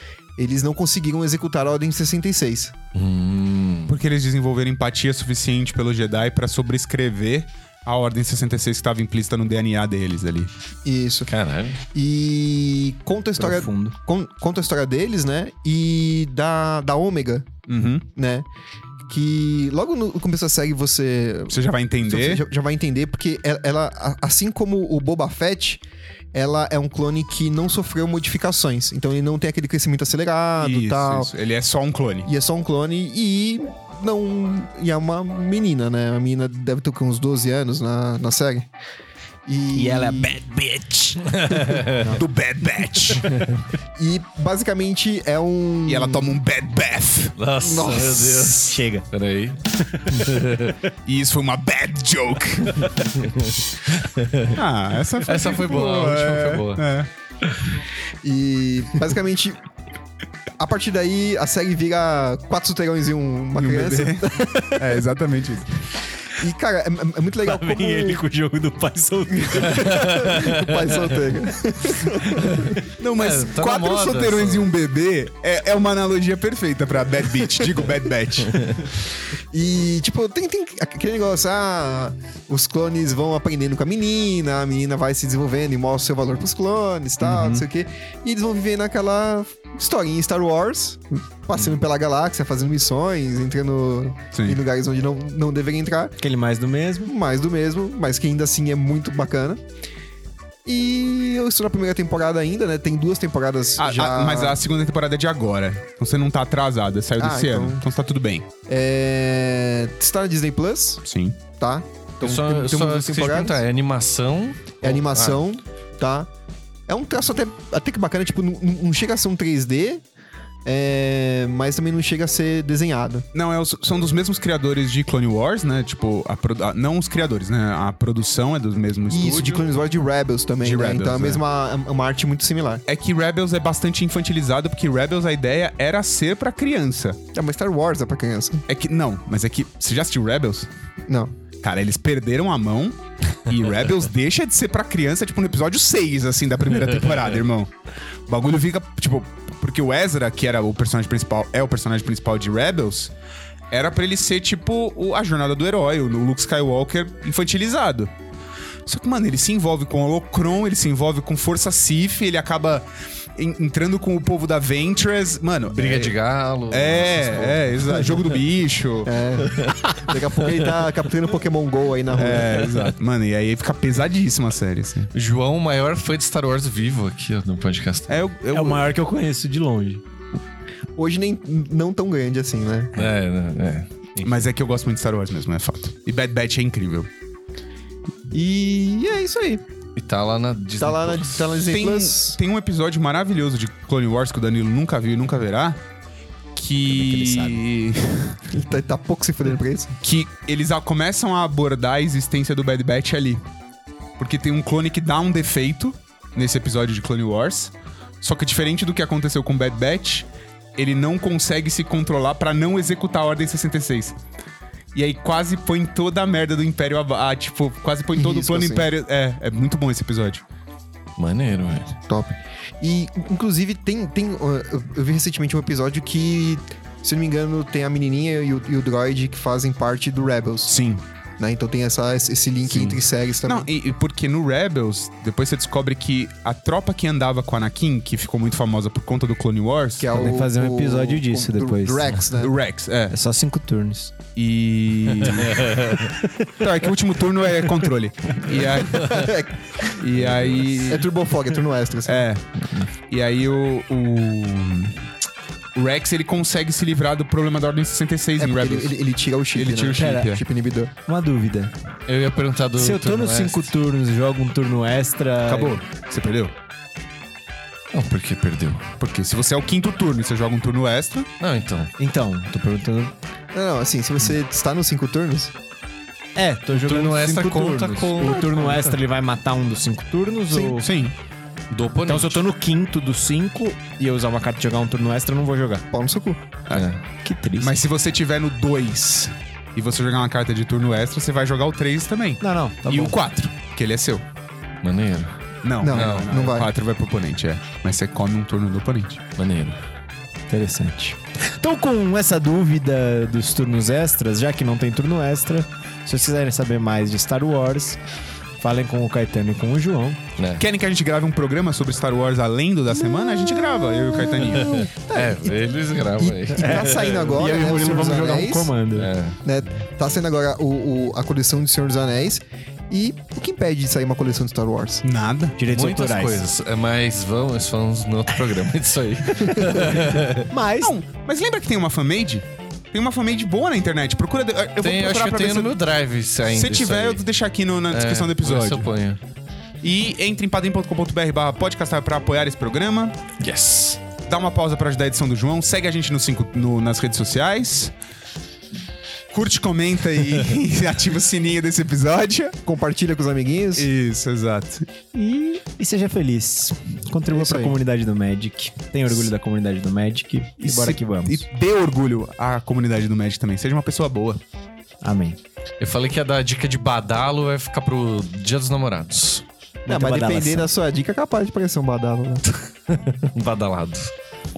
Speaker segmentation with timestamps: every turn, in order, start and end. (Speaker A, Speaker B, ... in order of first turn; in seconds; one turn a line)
Speaker A: 0.4-2.7
Speaker B: 2.9-4.0
Speaker C: 3.9-10.5
Speaker A: 10.8-11.3
Speaker B: 11.3-11.8
Speaker A: 11.9-17.5
Speaker D: 13.4-13.9
Speaker C: 17.7-18.1
Speaker A: 18.1-18.5
Speaker A: 19.1-31.3
Speaker C: 21.5-22.4
Speaker C: 30.6-32.3
Speaker A: 32.2-38.7
Speaker A: 39.5-40.4
Speaker D: 39.7-42.2
Speaker B: 41.4-42.1
Speaker C: 42.1-43.3
Speaker D: 43.1-43.5
Speaker A: 44.0-46.3
Speaker C: 45.8-47.4
Speaker B: 47.4-50.8
Speaker A: 47.6-48.6
Speaker D: 48.5-49.1
Speaker D: 49.8-50.5
Speaker C: 51.0-52.9
Speaker B: 53.2-54.5
Speaker C: 54.5-57.1
Speaker B: 55.2-56.9
Speaker A: 58.2-59.6
Speaker A: 60.6-64.7
Speaker C: 63.5-65.7
Speaker A: 66.4-68.2
Speaker D: 67.4-70.5
Speaker A: 69.4-72.6
Speaker B: 69.7-70.6
Speaker D: 72.1-72.7
Speaker C: 73.0-78.9
Speaker B: 73.2-74.7
Speaker A: 79.5-96.1
Speaker C: 87.2-87.7
Speaker C: 94.3-94.6
Speaker D: 96.2-97.1
Speaker A: 97.1-99.6
Speaker A: 100.6-104.6
Speaker C: 103.8-108.5
Speaker A: 107.2-107.8
Speaker A: 108.7-113.6
Speaker C: 111.0-111.4
Speaker B: 112.2-115.4
Speaker A: 114.8-116.3
Speaker A: 116.9-120.0
Speaker A: 120.6-123.2
Speaker C: 123.3-129.7
Speaker A: 129.1-132.8
Speaker C: 130.6-131.4
Speaker C: 132.9-137.2
Speaker A: 137.3-138.6
Speaker C: 138.7-140.7
Speaker A: 141.1-141.3
Speaker C: 141.6-147.7
Speaker C: 148.3-153.1
Speaker C: 153.7-158.1
Speaker C: 158.8-166.1
Speaker B: 165.7-168.2
Speaker C: 166.7-169.1
Speaker A: 169.1-172.7
Speaker C: 172.1-175.1
Speaker B: 175.1-178.2
Speaker C: 178.1-178.9
Speaker D: 178.5-180.0
Speaker A: 181.0-182.9
Speaker B: 182.9-184.4
Speaker C: 184.2-187.1
Speaker A: 188.3-189.6
Speaker B: 189.9-191.6
Speaker A: 190.8-192.4
Speaker C: 191.7-195.8
Speaker C: 196.5-198.4
Speaker D: 196.9-197.6
Speaker A: 198.5-199.9
Speaker C: 200.0-203.4
Speaker C: 204.2-214.2
Speaker C: 214.9-220.4
Speaker A: 218.1-218.8
Speaker B: 221.2-221.9
Speaker A: 222.1-230.8
Speaker C: 230.7-231.0
Speaker A: 231.4-233.7
Speaker C: 232.6-240.1
Speaker A: 240.0-242.5
Speaker D: 240.1-242.1
Speaker C: 242.4-243.1
Speaker D: 243.1-244.1
Speaker C: 244.3-245.8
Speaker B: 245.3-246.1
Speaker D: 246.0-246.5
Speaker C: 246.6-249.3
Speaker A: 248.9-249.6
Speaker C: 249.9-251.1
Speaker B: 250.2-250.9
Speaker A: 250.9-252.2
Speaker C: 252.0-252.4
Speaker C: 253.1-255.1
Speaker C: 255.7-258.9
Speaker A: 258.4-260.9
Speaker C: 259.5-260.4
Speaker D: 259.9-260.3
Speaker D: 261.1-261.7
Speaker B: 262.1-263.7
Speaker D: 262.8-265.8
Speaker C: 265.4-266.5
Speaker B: 267.9-268.9
Speaker C: 269.0-271.3
Speaker B: 271.4-271.9
Speaker D: 272.0-273.1
Speaker A: 273.5-275.5
Speaker D: 276.4-280.9
Speaker B: 276.7-278.9
Speaker C: 280.6-281.1
Speaker B: 281.7-282.4
Speaker D: 282.1-285.9
Speaker A: 285.9-286.4
Speaker B: 286.7-287.0
Speaker D: 287.2-287.7
Speaker C: 287.6-294.2
Speaker D: 292.4-293.2
Speaker B: 294.8-295.4
Speaker C: 295.6-299.2
Speaker A: 295.8-296.7
Speaker B: 295.9-296.5
Speaker B: 299.4-299.8
Speaker D: 300.5-308.0
Speaker D: 308.6-310.2
Speaker B: 310.4-310.6
Speaker C: 310.6-314.9
Speaker B: 314.5-317.6
Speaker A: 315.1-315.6
Speaker A: 316.2-318.7
Speaker D: 316.6-319.1
Speaker B: 318.9-319.4
Speaker A: 319.4-325.0
Speaker C: 325.0-325.6
Speaker D: 325.6-326.4
Speaker B: 325.7-330.5
Speaker D: 330.4-331.0
Speaker C: 330.8-335.8
Speaker B: 334.8-337.2
Speaker C: 336.4-338.9
Speaker B: 337.9-339.2
Speaker C: 339.8-343.2
Speaker B: 343.4-344.0
Speaker C: 344.2-347.9
Speaker C: 349.3-352.6
Speaker A: 352.6-353.9
Speaker C: 353.7-354.9
Speaker D: 355.1-361.5
Speaker A: 357.3-357.8
Speaker C: 360.6-364.4
Speaker D: 365.0-365.4
Speaker B: 365.8-369.4
Speaker D: 369.8-370.7
Speaker A: 369.9-372.4
Speaker B: 372.9-374.1